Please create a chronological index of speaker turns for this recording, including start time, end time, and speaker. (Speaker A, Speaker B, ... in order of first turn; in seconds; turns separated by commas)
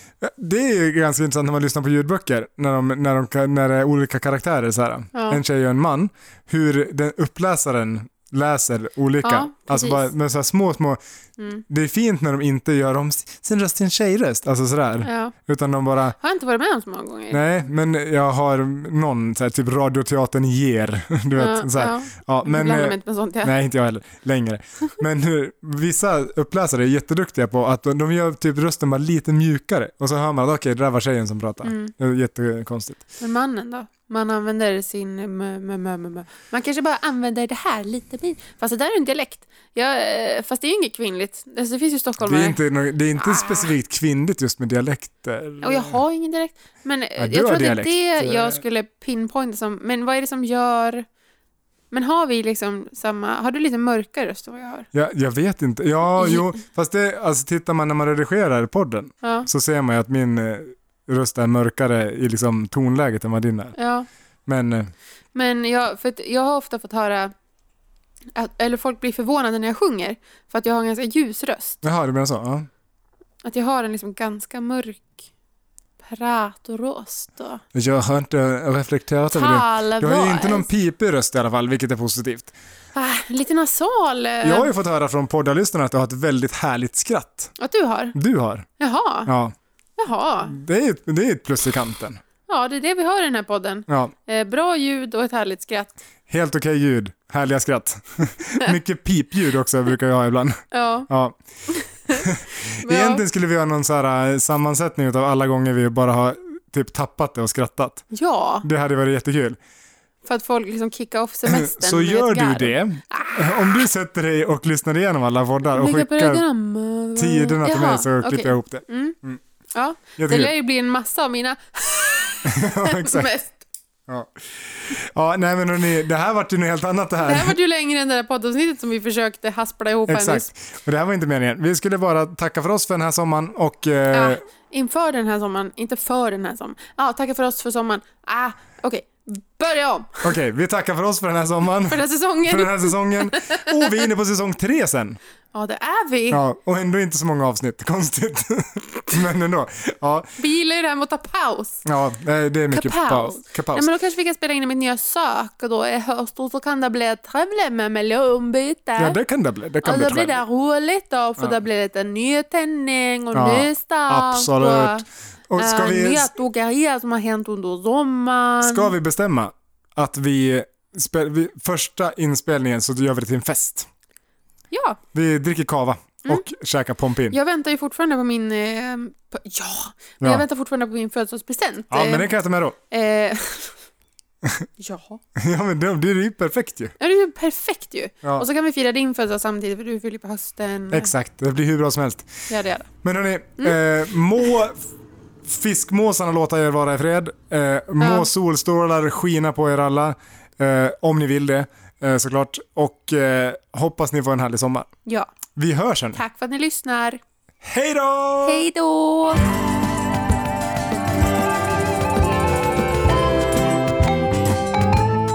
Speaker A: 0.2-11.0, Speaker B: 5.1-5.4, Speaker B: 9.2-10.1, Speaker A: 11.7-16.2, Speaker B: 15.0-15.3, Speaker B: 16.2-17.4, Speaker A: 17.3-33.0, Speaker B: 21.4-23.5, Speaker B: 31.6-31.9, Speaker B: 33.2-42.6, Speaker A: 42.2-46.0, Speaker B: 43.1-43.7, Speaker B: 45.6-51.0, Speaker A: 47.2-48.6, Speaker B: 51.9-54.9, Speaker A: 54.9-63.7, Speaker B: 56.2-56.5, Speaker B: 59.2-59.5, Speaker B: 63.7-64.1, Speaker A: 64.5-64.9, Speaker B: 65.3-67.3, Speaker B: 68.3-71.8, Speaker A: 71.8-72.7, Speaker B: 73.4-75.2, Speaker B: 76.0-77.6, Speaker A: 77.7-82.5, Speaker B: 79.3-80.7, Speaker B: 82.9-84.7, Speaker A: 84.4-87.5, Speaker B: 87.6-88.1, Speaker A: 88.1-88.7, Speaker B: 88.8-89.3, Speaker A: 89.2-89.5, Speaker B: 90.0-90.5, Speaker A: 90.5-92.2, Speaker B: 92.5-96.0, Speaker A: 93.9-94.1, Speaker A: 96.3-101.3, Speaker B: 100.7-101.1, Speaker B: 101.7-102.3, Speaker A: 102.1-108.0, Speaker B: 102.8-103.2, Speaker B: 108.1-108.7, Speaker A: 108.6-109.6, Speaker B: 110.2-113.7, Speaker A: 111.5-116.4, Speaker B: 115.7-119.2, Speaker A: 117.2-119.4, Speaker B: 119.7-123.6, Speaker A: 120.2-120.5, Speaker A: 122.5-123.3, Speaker A: 124.1-127.6, Speaker B: 127.2-130.5, Speaker A: 130.1-134.4, Speaker B: 134.1-140.3, Speaker A: 140.2-145.2, Speaker B: 141.9-143.9, Speaker B: 145.5-146.4, Speaker A: 146.3-150.3, Speaker B: 150.4-151.8, Speaker A: 151.8-153.9, Speaker B: 152.7-159.2, Speaker A: 159.0-160.4, Speaker B: 159.8-165.0, Speaker A: 163.3-166.3, Speaker B: 165.6-168.9, Speaker A: 168.6-173.9, Speaker B: 174.7-175.0, Speaker A: 175.1-177.4, Speaker B: 177.3-182.3, Speaker A: 181.9-182.8, Speaker B: 182.9-183.8, Speaker B: 184.8-185.2, Speaker A: 185.3-186.9, Speaker B: 187.0-191.1, Speaker A: 190.9-192.3, Speaker B: 192.5-192.9, Speaker A: 193.0-194.8, Speaker A: 195.4-204.9, Speaker B: 198.0-198.3, Speaker B: 205.1-205.3, Speaker A: 205.5-206.2, Speaker B: 206.1-207.2, Speaker A: 207.6-208.6, Speaker B: 208.4-209.4